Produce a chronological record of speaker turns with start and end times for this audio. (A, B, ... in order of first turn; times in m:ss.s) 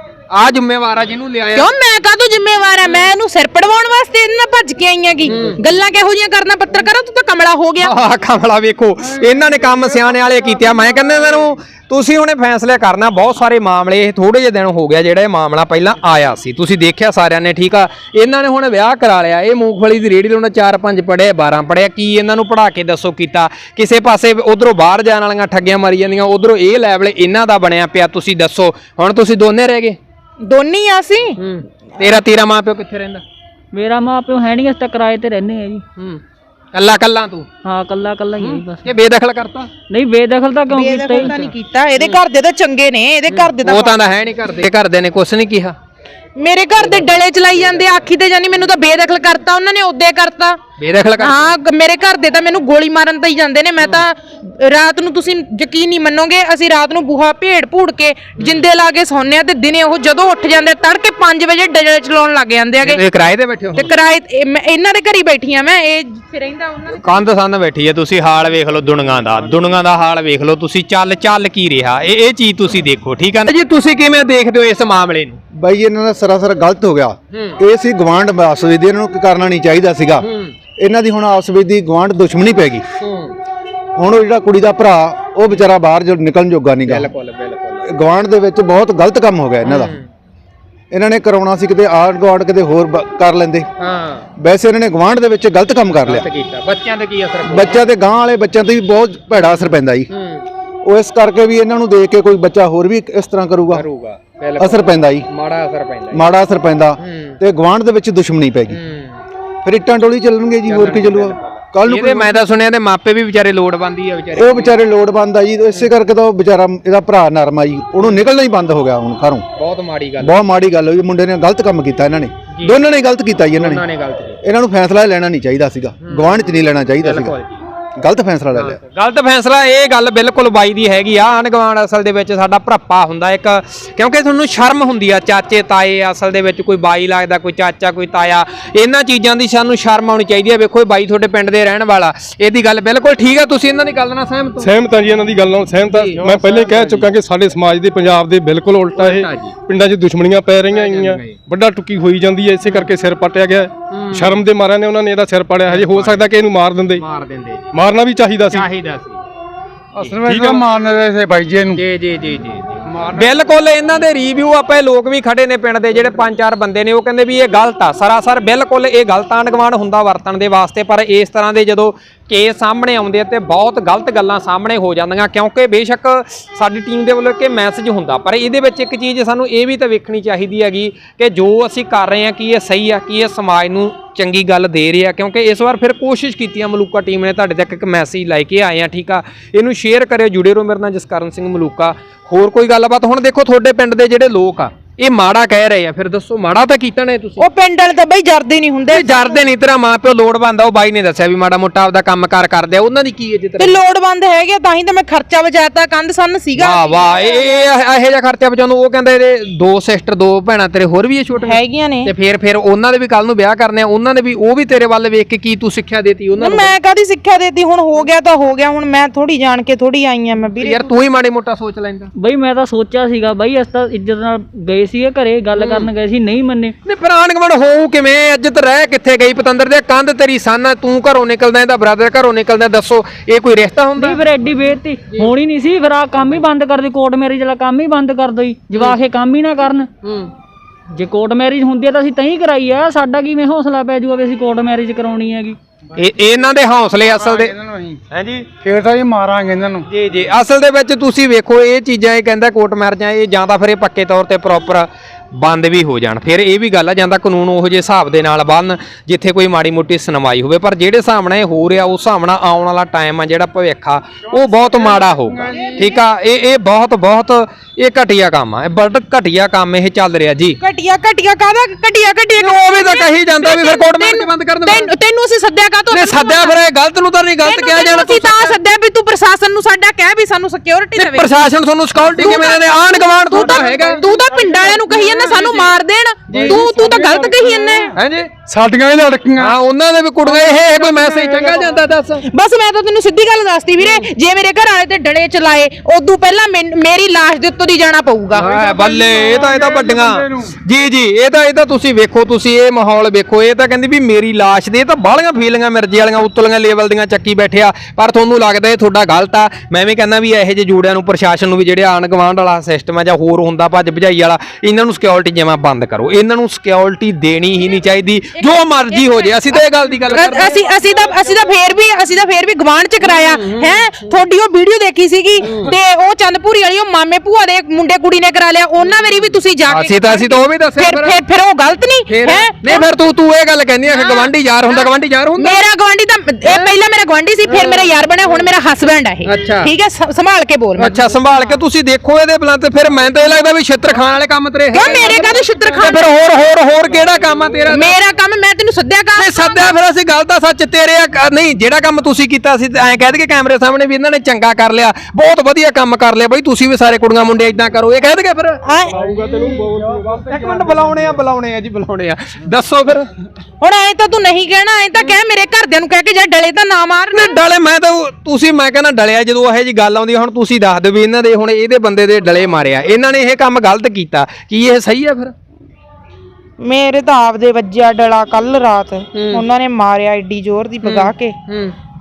0:00.3-0:01.7 A
0:01.5-0:07.9 B
0:02.8-0:03.1 A
0:05.2-0:05.6 A
0:07.8-0:30.0 A
0:30.4-0:31.4 B
0:31.4-0:33.2 A
0:33.7-0:35.8 C
0:36.0-0:36.2 A
0:36.7-0:37.5 A
0:37.6-0:38.8 C
0:38.4-0:39.7 A
0:39.9-0:41.3 C
0:40.7-0:44.0 B
0:41.2-0:42.2 A
0:43.3-0:45.8 A
0:46.4-0:50.6 B
0:46.8-0:47.1 A
0:50.8-0:51.5 A
0:51.2-1:03.0 B
0:58.4-0:58.6 A
1:02.8-1:03.9 A
1:03.7-1:07.0 B
1:06.9-1:15.4 A
1:15.5-1:20.3 D
1:17.3-1:17.6 A
1:20.2-1:20.5 A
1:20.8-1:22.8 D
1:23.0-1:23.4 A
1:24.0-1:27.1 D
1:26.8-1:27.9 A
1:27.8-1:29.9 D
1:29.6-1:30.0 A
1:30.9-1:33.7 D
1:33.8-1:34.3 A
1:34.4-1:36.3 D
1:36.0-1:37.8 A
1:37.4-1:40.1 D
1:39.3-1:40.4 A
1:40.8-1:43.8 D
1:43.7-1:46.2 A
1:44.6-1:45.3 D
1:46.1-1:48.8 D
1:47.0-1:47.4 A
1:48.7-1:49.2 A
1:49.6-1:52.4 D
1:50.7-1:54.8 A
1:54.3-1:59.4 D
1:59.6-2:00.4 A
2:00.2-2:03.8 D
2:02.5-2:02.8 A
2:03.5-2:04.4 A
2:04.4-2:07.4 D
2:06.0-2:07.6 A
2:08.0-2:08.8 D
2:08.5-2:24.7 A
2:24.6-2:37.0 E
2:25.8-2:27.1 A
2:28.9-2:29.5 A
2:30.7-2:31.4 A
2:32.6-2:32.9 A
2:33.9-2:34.4 A
2:35.6-2:36.2 A
2:36.9-2:37.6 A
2:37.7-2:38.7 E
2:38.5-2:39.2 A
2:39.9-2:41.8 F
2:40.2-2:40.6 E
2:41.7-3:17.4 A
2:42.9-2:43.3 F
3:17.4-3:19.4 B
3:18.9-3:23.8 A
3:23.6-3:27.6 B
3:26.6-3:36.7 A
3:31.4-3:32.1 B
3:36.4-3:40.9 B
3:40.6-3:42.1 A
3:42.2-3:46.8 C
3:45.5-3:45.9 A
3:46.8-3:54.2 A
3:53.9-3:59.9 C
3:58.7-3:59.0 A
4:00.0-4:00.3 A
4:00.9-4:05.6 C
4:06.0-4:07.5 A
4:07.0-4:08.0 F
4:08.1-4:08.5 A
4:08.6-4:09.8 F
4:09.9-4:30.6 A
4:25.5-4:25.9 B
4:30.6-4:36.6 B
4:32.4-4:34.9 A
4:35.9-4:38.6 A
4:37.4-4:41.3 B
4:41.0-4:44.0 A
4:42.1-4:47.9 B
4:43.3-4:45.7 F
4:46.3-4:47.9 F
4:47.9-4:48.3 A
4:48.4-4:49.6 F
4:49.4-4:52.2 A
4:50.2-4:51.8 F
4:52.2-4:58.5 B
4:53.8-4:54.1 A
4:58.3-5:00.5 F
4:58.4-5:20.6 A
5:18.4-5:32.9 B
5:23.0-5:23.8 A
5:25.4-5:25.7 A
5:29.7-5:31.2 A
5:32.1-5:35.6 A
5:33.9-5:41.4 B
5:36.4-5:36.7 A
5:37.4-5:38.5 A
5:39.2-5:39.7 A
5:40.8-5:47.9 A
5:44.7-5:46.1 B
5:47.7-5:49.7 B
5:49.2-5:58.6 A
5:58.6-5:59.0 B
5:59.0-6:00.0 E
5:59.9-6:03.1 A
6:03.6-6:07.4 B
6:07.1-6:15.3 A
6:16.6-6:21.4 B
6:19.1-6:19.4 A
6:20.8-6:21.7 A